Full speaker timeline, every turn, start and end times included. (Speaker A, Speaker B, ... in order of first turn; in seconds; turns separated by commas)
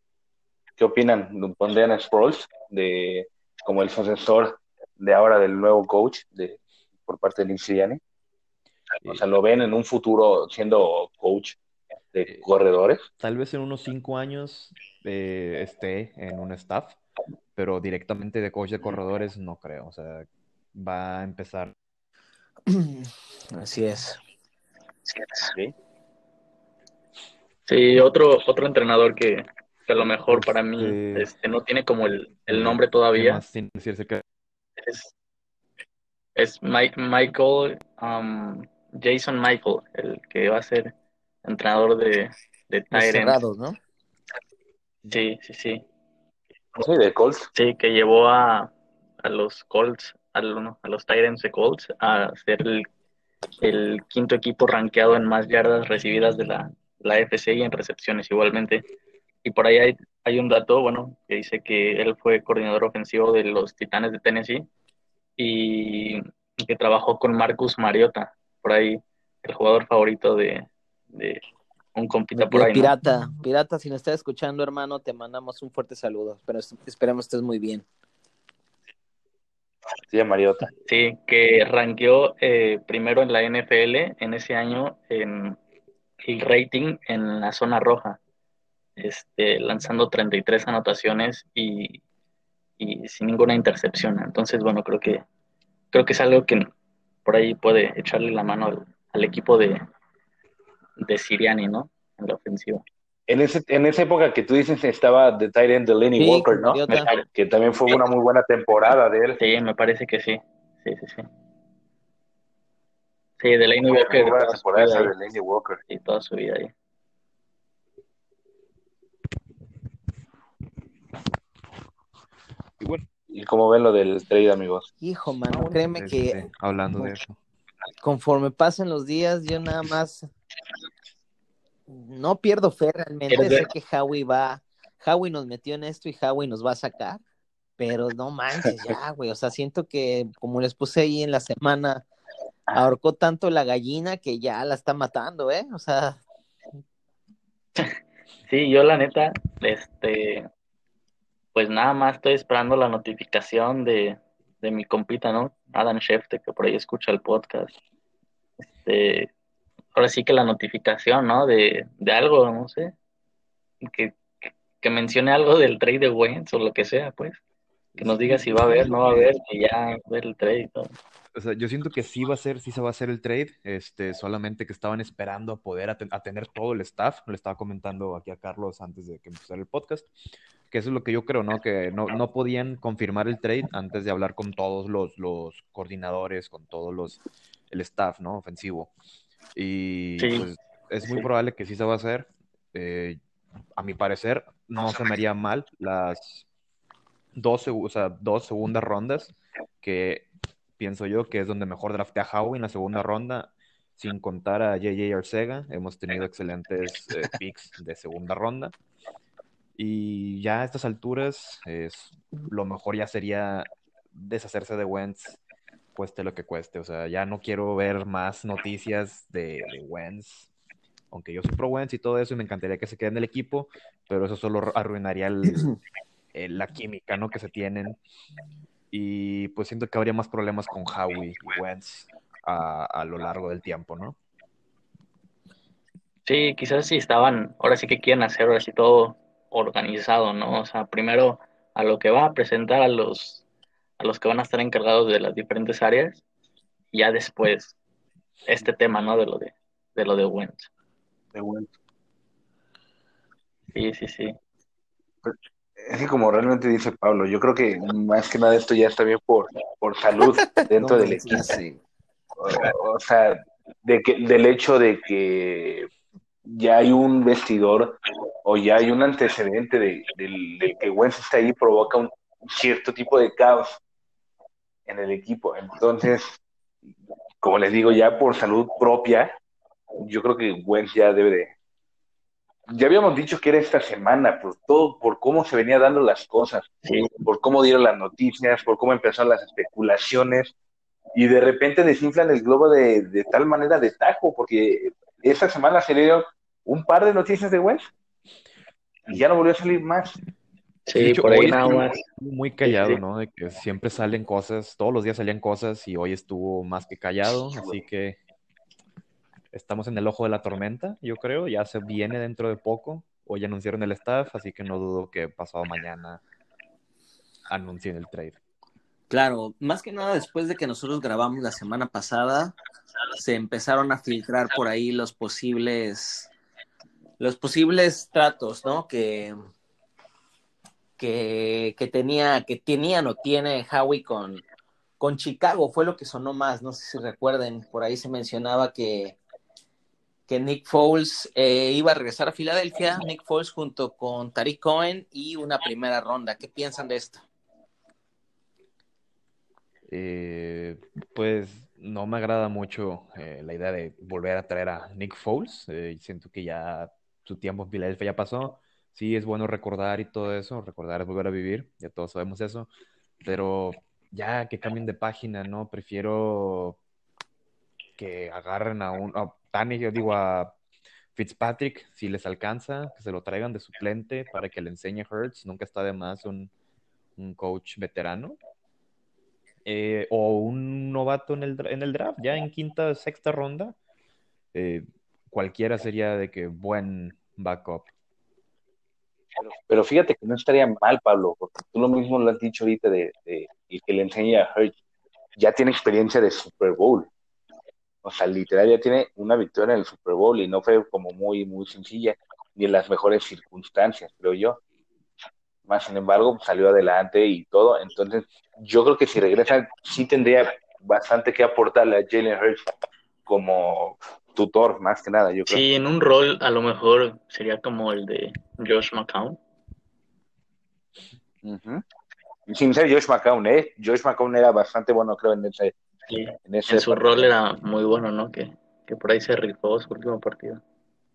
Speaker A: 0.8-8.0, Speaker A: 9.1-11.6, Speaker A: 12.1-13.0, Speaker B: 13.2-17.0, Speaker B: 17.6-21.7, Speaker C: 22.7-24.2, Speaker D: 27.7-33.4, Speaker B: 30.3-31.3, Speaker B: 32.5-34.2, Speaker D: 34.8-35.1, Speaker D: 36.4-43.4, Speaker C: 42.9-43.8, Speaker D: 45.1-45.8, Speaker A: 46.8-47.5, Speaker D: 47.5-52.9, Speaker D: 53.6-58.8, Speaker D: 59.4-64.7, Speaker D: 65.4-71.4, Speaker D: 72.0-72.9, Speaker C: 72.3-77.8, Speaker A: 80.1-80.7, Speaker D: 80.9-85.6, Speaker D: 86.2-88.2, Speaker D: 89.0-92.0, Speaker D: 92.8-95.2, Speaker D: 95.9-96.7, Speaker D: 97.2-99.8, Speaker D: 101.0-102.8, Speaker A: 103.3-106.8, Speaker C: 106.2-107.1, Speaker D: 106.9-107.3, Speaker A: 107.3-109.4, Speaker D: 109.4-111.3, Speaker D: 113.4-115.1, Speaker A: 113.8-115.8, Speaker D: 115.9-116.7, Speaker B: 122.8-123.0, Speaker A: 123.3-124.9, Speaker C: 125.0-126.4, Speaker B: 125.5-127.4, Speaker C: 128.0-130.3, Speaker C: 131.9-137.2, Speaker D: 133.3-133.7, Speaker C: 137.8-142.1, Speaker C: 142.7-146.2, Speaker D: 148.5-150.5, Speaker D: 151.6-157.7, Speaker D: 158.8-159.3, Speaker D: 159.9-162.9, Speaker D: 163.8-167.4, Speaker B: 167.9-169.3, Speaker D: 168.0-170.9, Speaker B: 171.3-180.1, Speaker B: 180.7-187.2, Speaker B: 187.7-188.9, Speaker B: 189.6-193.2, Speaker D: 190.2-190.5, Speaker B: 193.8-196.4, Speaker B: 197.3-200.3, Speaker B: 200.8-208.7, Speaker B: 209.8-215.4, Speaker B: 215.9-220.5, Speaker B: 221.1-225.8, Speaker B: 226.3-228.0, Speaker B: 228.9-234.2, Speaker D: 236.3-243.4, Speaker D: 244.0-246.2, Speaker D: 246.9-247.8, Speaker D: 248.5-250.7, Speaker A: 251.3-251.7, Speaker D: 253.7-254.3, Speaker A: 255.2-261.6, Speaker C: 260.5-261.8, Speaker A: 262.4-265.9, Speaker A: 266.5-273.8, Speaker A: 274.9-276.4, Speaker A: 277.4-279.3, Speaker A: 280.0-281.5, Speaker A: 282.7-286.7, Speaker D: 286.9-287.1, Speaker A: 287.2-290.5, Speaker A: 291.1-297.9, Speaker A: 299.1-300.2, Speaker D: 300.9-302.0, Speaker B: 301.0-308.2, Speaker D: 302.6-303.0, Speaker B: 309.5-316.2, Speaker B: 317.5-318.4, Speaker C: 319.1-322.6, Speaker C: 323.1-326.3, Speaker C: 327.2-329.4, Speaker C: 331.0-334.4, Speaker C: 335.0-339.2, Speaker C: 340.3-347.2, Speaker B: 349.9-362.7, Speaker B: 363.2-366.8, Speaker B: 368.0-370.6, Speaker B: 371.1-376.5, Speaker B: 377.2-378.4, Speaker B: 379.6-383.8, Speaker B: 384.5-387.9, Speaker A: 389.4-394.8, Speaker A: 395.4-397.1, Speaker A: 398.0-404.6, Speaker A: 405.7-412.6, Speaker A: 413.3-415.6, Speaker D: 415.5-419.4, Speaker A: 421.4-421.8, Speaker A: 422.5-425.8, Speaker D: 426.1-430.6, Speaker A: 426.5-427.3